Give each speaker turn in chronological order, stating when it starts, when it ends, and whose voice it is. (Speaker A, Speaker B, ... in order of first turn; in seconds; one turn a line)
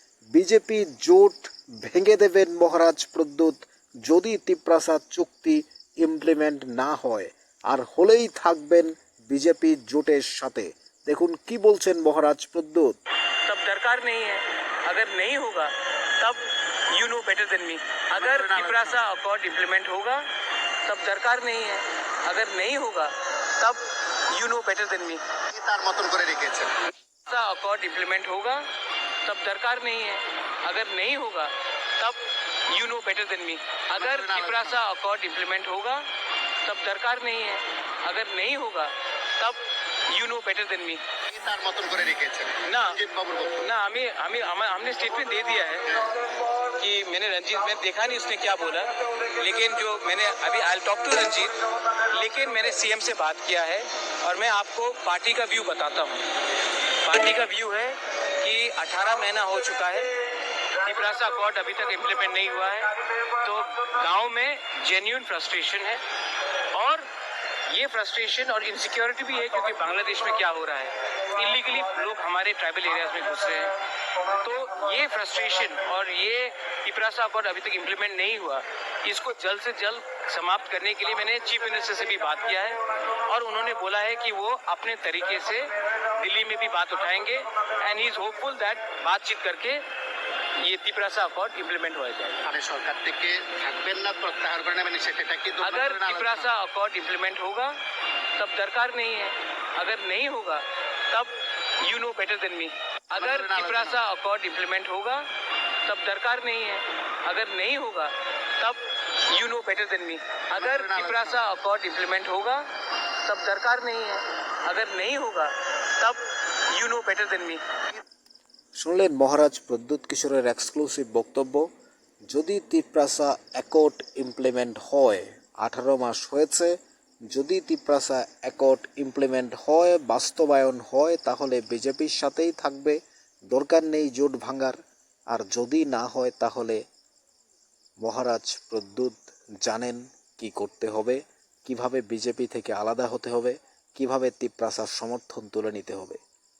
Speaker A: 0.3-12.9
Speaker B: 13.5-20.2
Speaker C: 18.1-19.0
Speaker B: 20.8-25.2
Speaker C: 25.5-26.7
Speaker B: 27.2-28.7
Speaker B: 29.2-36.1
Speaker C: 33.9-34.8
Speaker B: 36.6-41.0
Speaker C: 41.3-43.7
Speaker B: 42.6-43.0
Speaker B: 43.6-46.1
Speaker B: 46.6-66.0
Speaker B: 66.7-67.1
Speaker B: 67.7-89.8
Speaker B: 90.6-92.5
Speaker C: 92.5-96.5
Speaker B: 95.6-97.8
Speaker B: 98.3-105.3
Speaker C: 103.1-104.0
Speaker B: 105.8-112.7
Speaker C: 110.5-111.4
Speaker B: 113.2-117.6
Speaker A: 118.8-121.7
Speaker A: 122.3-126.8
Speaker A: 127.3-133.0
Speaker A: 133.5-134.8
Speaker A: 135.3-136.8
Speaker A: 138.0-146.2